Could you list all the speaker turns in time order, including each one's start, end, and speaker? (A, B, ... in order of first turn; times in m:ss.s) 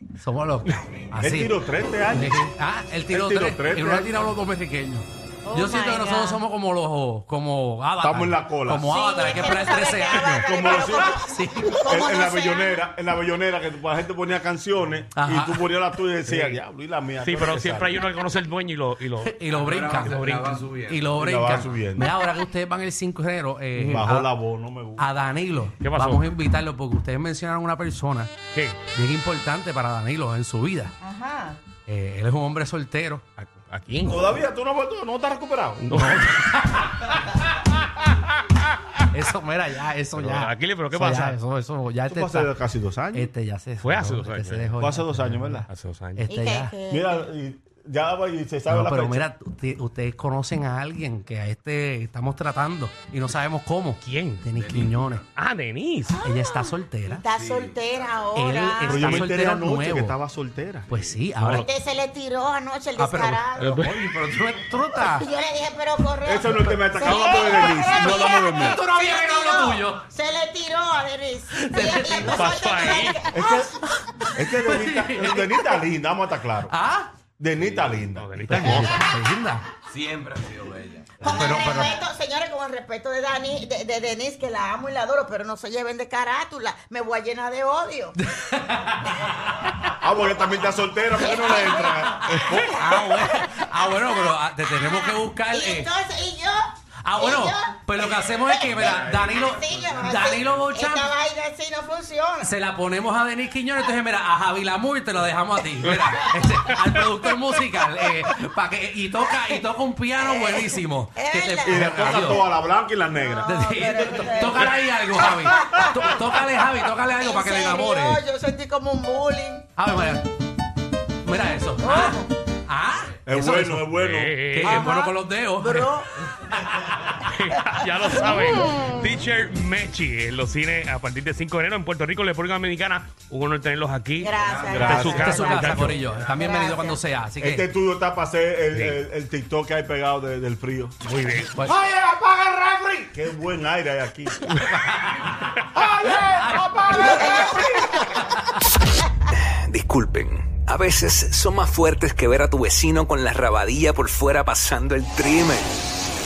0:00.2-0:01.6 A
0:01.2-0:02.5 B
0:02.1-0:11.8 A
0:03.1-0:04.2 B
0:05.4-0:06.4 C
0:08.0-0:08.9 B
0:08.8-0:12.8 C
0:10.4-0:11.2 B
0:11.8-0:18.0 B
0:15.2-0:15.7 A
0:17.2-0:19.4 D
0:19.2-0:24.3 A
0:19.5-0:21.2 E
0:19.9-0:20.6 D
0:21.2-0:22.1 B
0:23.7-0:25.1 B
0:25.0-0:28.3 A
0:25.8-0:26.2 D
0:28.5-0:28.8 D
0:28.9-0:30.9 A
0:31.0-0:31.6 C
0:31.8-0:33.2 A
0:33.4-0:34.3 D
0:34.0-0:35.9 B
0:35.8-0:36.3 D
0:35.9-0:37.1 A
0:39.1-0:42.6 A
0:40.2-0:41.4 D
0:42.1-0:43.3 B
0:43.1-0:46.7 A
0:43.8-0:44.8 D
0:44.8-0:45.6 B
0:45.7-0:46.2 D
0:46.3-0:47.2 C
0:46.9-0:49.2 B
0:48.7-0:55.2 A
0:54.0-0:54.4 D
0:54.5-0:55.2 E
0:55.3-0:56.2 D
0:56.2-0:57.2 A
0:57.0-0:59.2 C
0:57.3-0:58.3 E
0:58.3-1:00.2 A
0:58.8-1:00.9 B
1:00.9-1:01.7 A
1:00.9-1:01.2 E
1:01.4-1:01.7 D
1:01.5-1:03.8 C
1:03.0-1:05.3 A
1:03.6-1:03.9 D
1:05.0-1:13.8 C
1:06.2-1:08.8 B
1:07.1-1:10.1 A
1:11.5-1:12.6 A
1:12.2-1:13.2 D
1:13.3-1:13.8 B
1:14.3-1:16.7 B
1:14.4-1:15.8 A
1:16.7-1:17.1 A
1:17.4-1:18.3 B
1:17.5-1:18.1 E
1:18.1-1:19.0 D
1:18.5-1:19.6 A
1:19.9-1:21.4 E
1:21.2-1:28.2 C
1:21.2-1:22.0 A
1:28.2-1:29.8 A
1:30.0-1:32.9 B
1:31.1-1:36.6 C
1:32.3-1:35.9 A
1:37.0-1:41.1 A
1:37.2-1:42.5 C
1:38.8-1:40.6 E
1:42.4-1:52.4 A
1:50.2-1:51.9 C
1:51.6-1:54.5 B
1:53.1-1:56.4 C
1:53.4-1:58.2 A
1:57.2-1:59.7 C
1:59.8-2:00.2 A
2:01.2-2:05.9 A
2:01.8-2:02.3 C
2:03.3-2:04.3 B
2:04.0-2:04.9 D
2:04.6-2:06.1 C
2:07.1-2:16.0 D
2:14.2-2:17.0 C
2:14.3-2:16.4 E
2:14.7-2:15.3 B
2:15.1-2:17.6 A
2:17.4-2:20.9 B
2:18.7-2:19.0 D
2:21.0-2:21.6 D
2:21.6-2:24.7 B
2:24.5-2:25.3 A
2:25.7-2:27.8 B
2:26.1-2:27.8 A
2:29.5-2:35.7 F